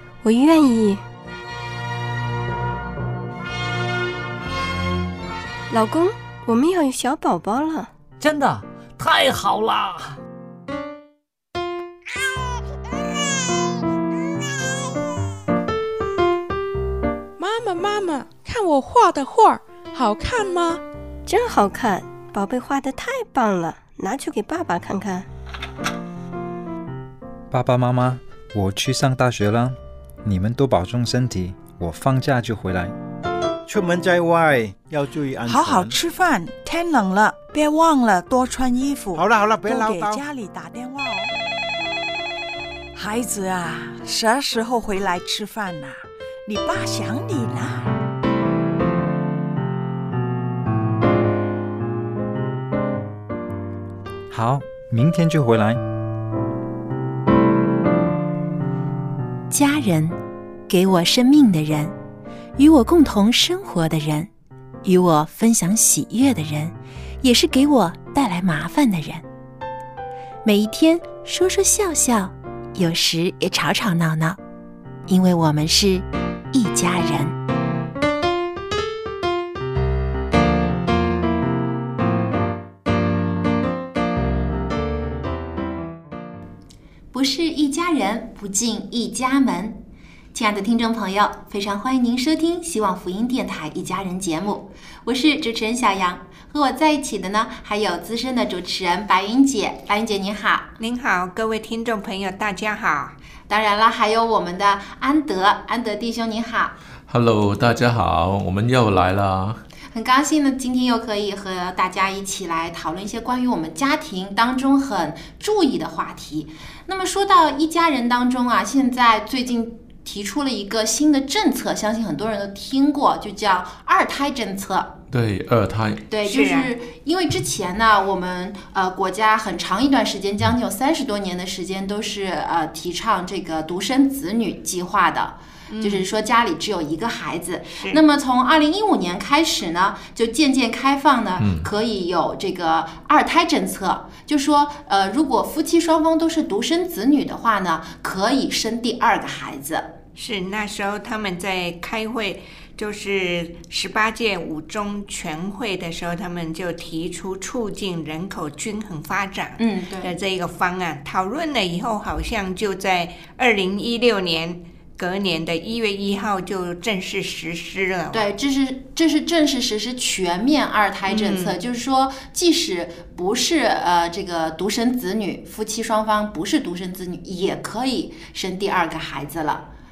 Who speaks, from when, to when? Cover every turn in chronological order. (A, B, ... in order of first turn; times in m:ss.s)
0:00.2-0:01.0 A
0:05.7-0:07.9 A
0:08.2-0:10.2 B
0:17.4-0:20.8 C
0:21.3-0:25.2 A
0:27.5-0:32.9 D
0:33.7-0:36.0 E
0:35.4-0:41.3 F
0:39.1-0:40.2 E
0:43.0-0:47.9 F
0:54.3-0:55.8 D
0:59.5-1:00.2 G
1:00.7-1:01.9 G
1:02.6-1:04.3 G
1:04.8-1:09.2 G
1:10.4-1:14.4 G
1:15.1-1:17.4 G
1:27.1-1:29.8 G
1:30.3-1:40.7 G
1:40.8-1:43.2 H
1:43.5-1:46.8 G
1:47.1-1:49.6 I
1:49.9-2:04.9 G
2:05.1-2:06.0 I
2:06.1-2:29.9 G
2:06.2-2:06.7 H
2:15.7-2:16.1 H
2:17.7-2:18.0 H
2:21.4-2:21.7 I
2:30.2-2:48.3 H
2:39.6-2:40.1 G
2:48.1-2:59.7 G
2:51.1-2:51.6 H